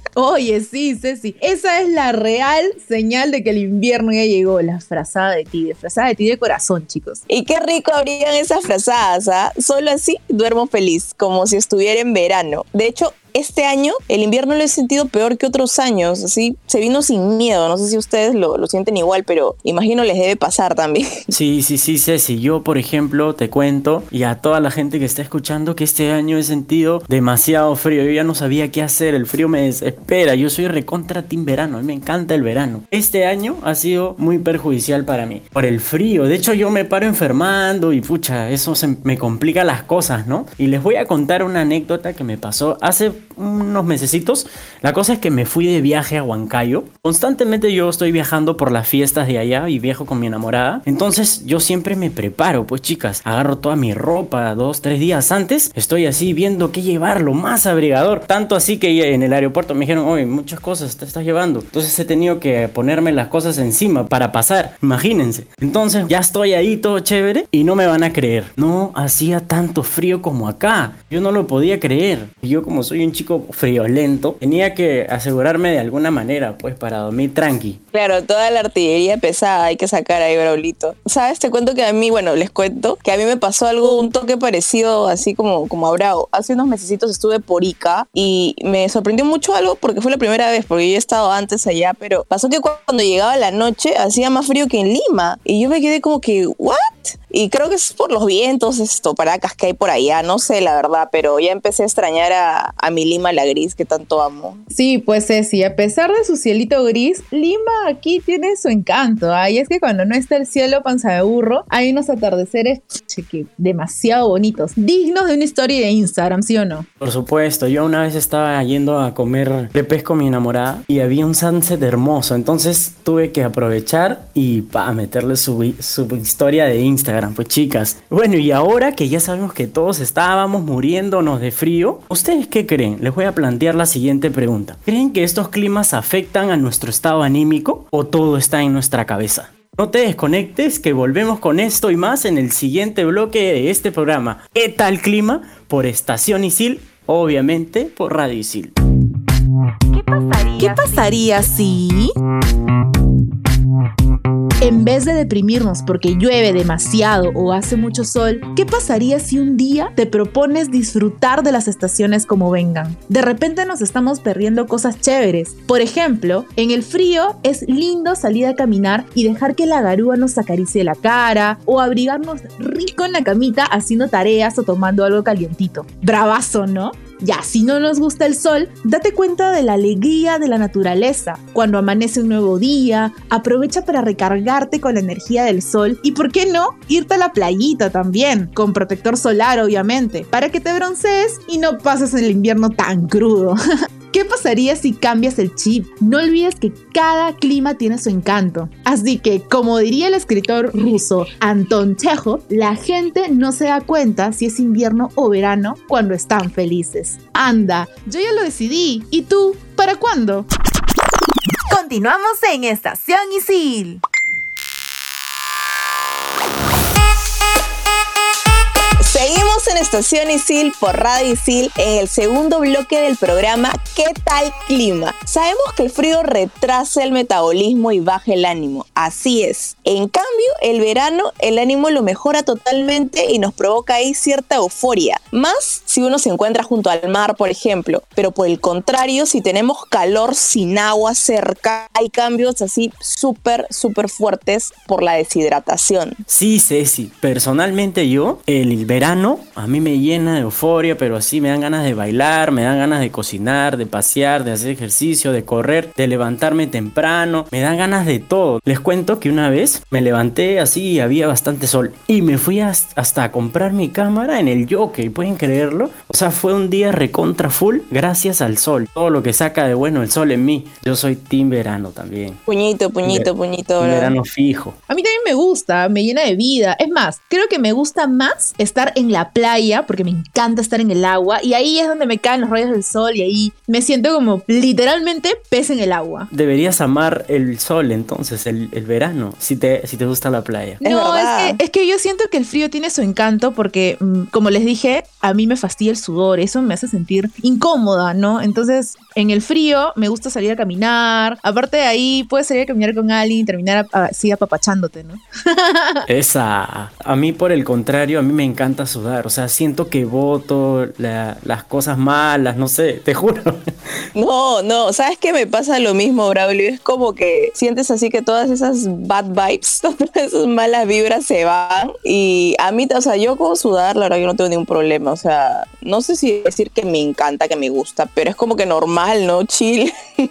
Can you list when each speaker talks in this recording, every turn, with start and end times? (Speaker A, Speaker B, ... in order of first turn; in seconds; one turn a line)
Speaker A: 0.2-7.2
Speaker B: 7.3-21.2
Speaker C: 21.3-77.8
Speaker B: 77.9-104.6
Speaker A: 104.7-116.9
Speaker C: 117.0-148.8
Speaker A: 150.6-152.1
Speaker A: 154.6-193.6
Speaker A: 194.1-210.5
Speaker A: 211.7-214.0
Speaker B: 219.0-246.2
Speaker C: 246.3-272.4
Speaker B: 272.5-274.2
Speaker C: 273.0-274.8
Speaker A: 274.9-286.3
Speaker C: 286.3-290.8
Speaker A: 290.8-306.1
Speaker B: 290.8-291.6
Speaker C: 306.1-313.6
Speaker B: 314.1-329.9